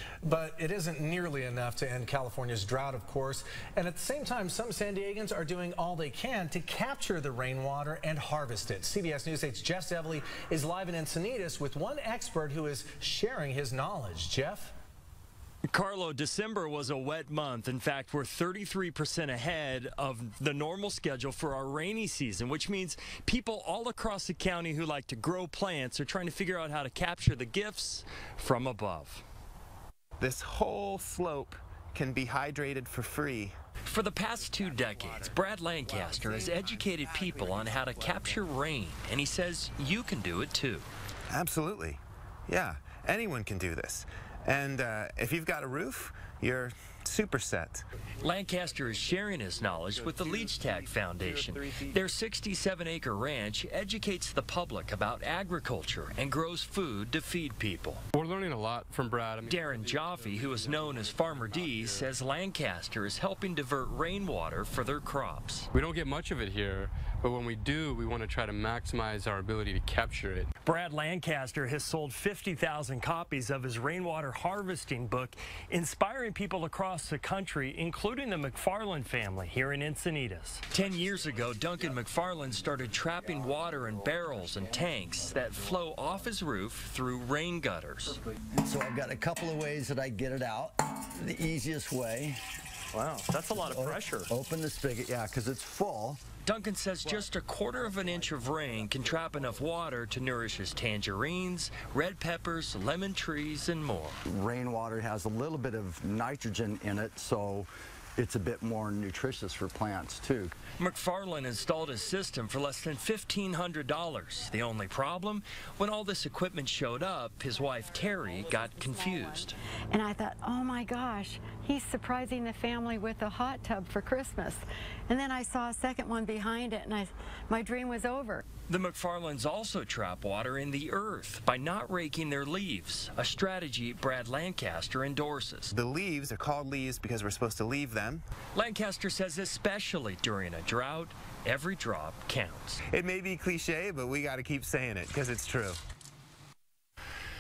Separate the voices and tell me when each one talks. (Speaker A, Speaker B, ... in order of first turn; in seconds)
Speaker A: 0.3-14.7
Speaker B: 15.7-29.2, 33.9-40.9, 48.2-58.0, 59.5-65.7, 70.6-88.2, 92.9-94.3, 96.4-104.2, 110.8-119.6, 128.7-135.7, 138.5-142.8
Speaker C: 30.2-33.5, 41.3-47.8, 135.7-138.2, 142.9-145.8
Speaker D: 58.1-62.1, 65.7-70.5
Speaker E: 88.6-92.4, 93.6-96.2, 104.3-110.6
Speaker F: 118.9-119.3, 119.9-128.4